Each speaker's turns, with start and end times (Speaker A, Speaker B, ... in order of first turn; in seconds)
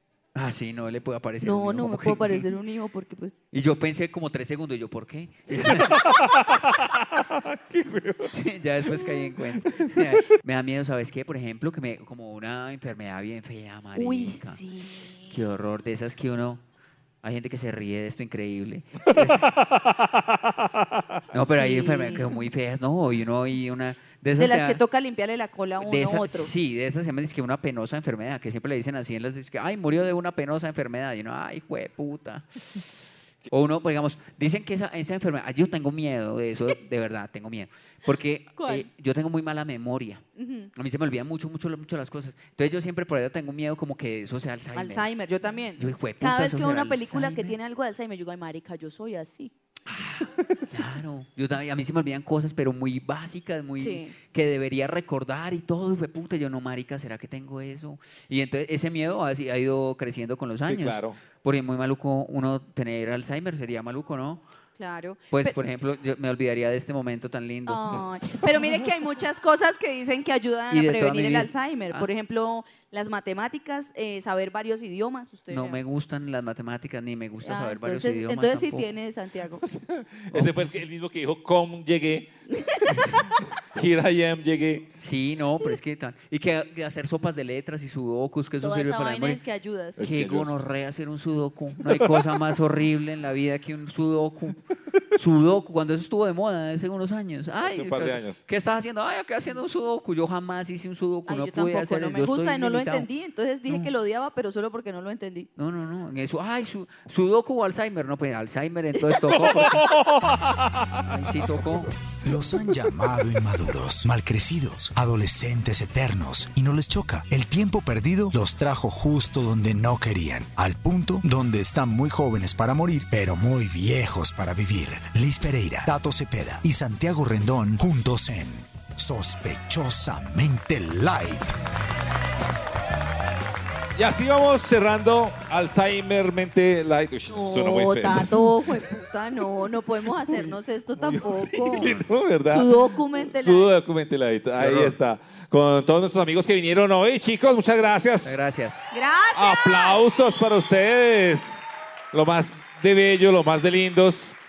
Speaker A: 0.3-2.5, 3.5-6.0, 8.3-14.6, 15.3-16.6, 17.2-19.5, 21.3-24.8, 25.8-32.8, 33.5-40.2, 40.7-45.0, 45.8-47.6, 49.9-64.4, 65.3-68.0, 70.7-72.1, 75.5-78.9, 80.3-80.7, 85.0-89.4, 90.0-94.6, 95.1-103.1, 103.7-103.9, 105.6-109.9, 111.1-111.9, 141.8-142.1, 144.6-144.9, 148.2-148.9
Speaker B: 1.4-3.4, 13.9-15.4, 21.3-22.4, 24.4-26.5, 38.6-38.9, 40.4-40.7, 44.7-49.5, 53.8-54.1, 64.8-65.5, 67.7-75.8, 77.4-79.6, 82.6-83.0, 88.6-90.0, 101.3-105.5, 137.3-141.9, 142.5-143.7, 148.9-149.9
Speaker C: 5.5-8.4, 9.7-10.1, 19.1-21.2, 50.4-50.8, 60.6-61.2, 79.6-82.3, 83.7-84.9, 90.0-90.5, 91.8-92.2, 97.6-98.4, 109.7-111.0, 133.9-138.4, 140.4-148.3, 149.3-154.4
Speaker D: 112.2-131.5